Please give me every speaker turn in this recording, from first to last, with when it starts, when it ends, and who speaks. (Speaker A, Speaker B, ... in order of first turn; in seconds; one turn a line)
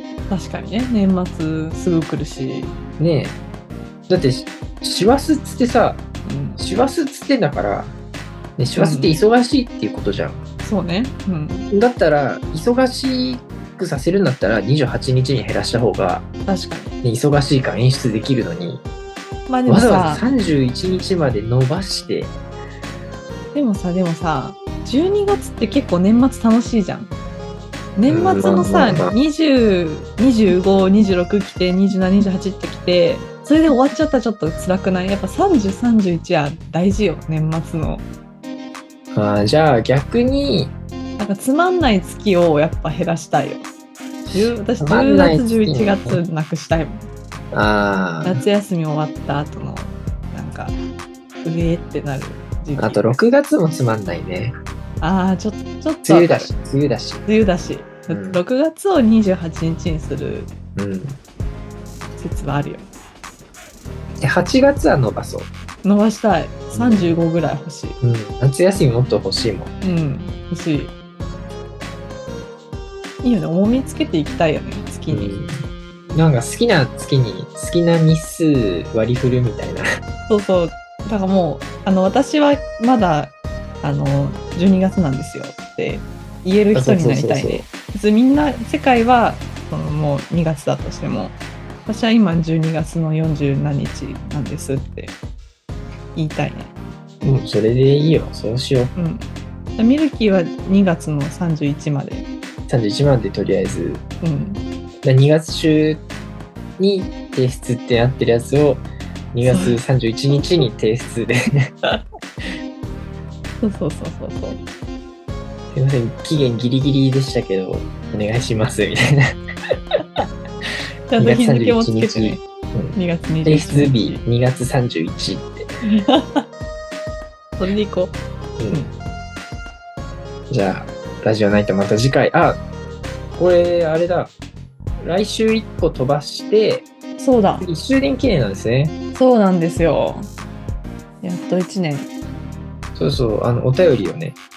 Speaker A: 0.3-2.7
Speaker B: 3.0-3.4
Speaker B: 4.1-6.0
Speaker A: 6.2-6.6
Speaker B: 6.6-7.9
Speaker B: 8.6-10.4
Speaker A: 8.8-9.1
Speaker A: 10.6-11.7
Speaker B: 11.7-16.2
Speaker A: 16.5-17.0
Speaker B: 17.0-18.8
Speaker A: 19.5-20.2
Speaker B: 19.7-22.3
Speaker A: 23.5-27.1
Speaker A: 28.0-38.0
Speaker B: 28.1-29.1
Speaker B: 39.1-40.7
Speaker A: 41.2-43.7
Speaker B: 44.3-46.2
Speaker A: 44.3-47.0
Speaker B: 47.5-48.4
Speaker A: 48.2-50.7
Speaker A: 51.4-53.2
Speaker B: 52.8-54.5
Speaker A: 55.0-56.5
Speaker B: 56.0-57.3
Speaker A: 57.2-60.5
Speaker B: 58.1-58.4
Speaker B: 60.7-61.2
Speaker A: 62.2-62.9
Speaker B: 64.2-65.5
Speaker A: 65.8-68.0
Speaker B: 66.7-67.1
Speaker B: 68.0-69.7
Speaker A: 69.8-70.9
Speaker A: 73.2-75.3
Speaker B: 75.1-79.8
Speaker A: 80.3-95.1
Speaker B: 86.7-87.6
Speaker A: 96.1-96.7
Speaker B: 97.2-98.9
Speaker A: 99.0-99.2
Speaker A: 99.8-102.3
Speaker B: 102.7-104.0
Speaker A: 104.2-104.6
Speaker B: 105.0-106.0
Speaker B: 106.8-111.7
Speaker A: 109.4-109.8
Speaker A: 113.6-114.6
Speaker B: 115.7-119.3
Speaker A: 121.1-122.4
Speaker B: 121.2-125.7
Speaker A: 123.0-124.2
Speaker A: 125.8-126.4
Speaker A: 127.6-128.2
Speaker B: 128.6-128.8
Speaker B: 130.5-132.6
Speaker B: 133.3-134.3
Speaker B: 135.0-136.9
Speaker A: 137.2-137.7
Speaker B: 137.6-138.9
Speaker A: 139.1-140.3
Speaker A: 141.2-142.1
Speaker B: 142.9-144.4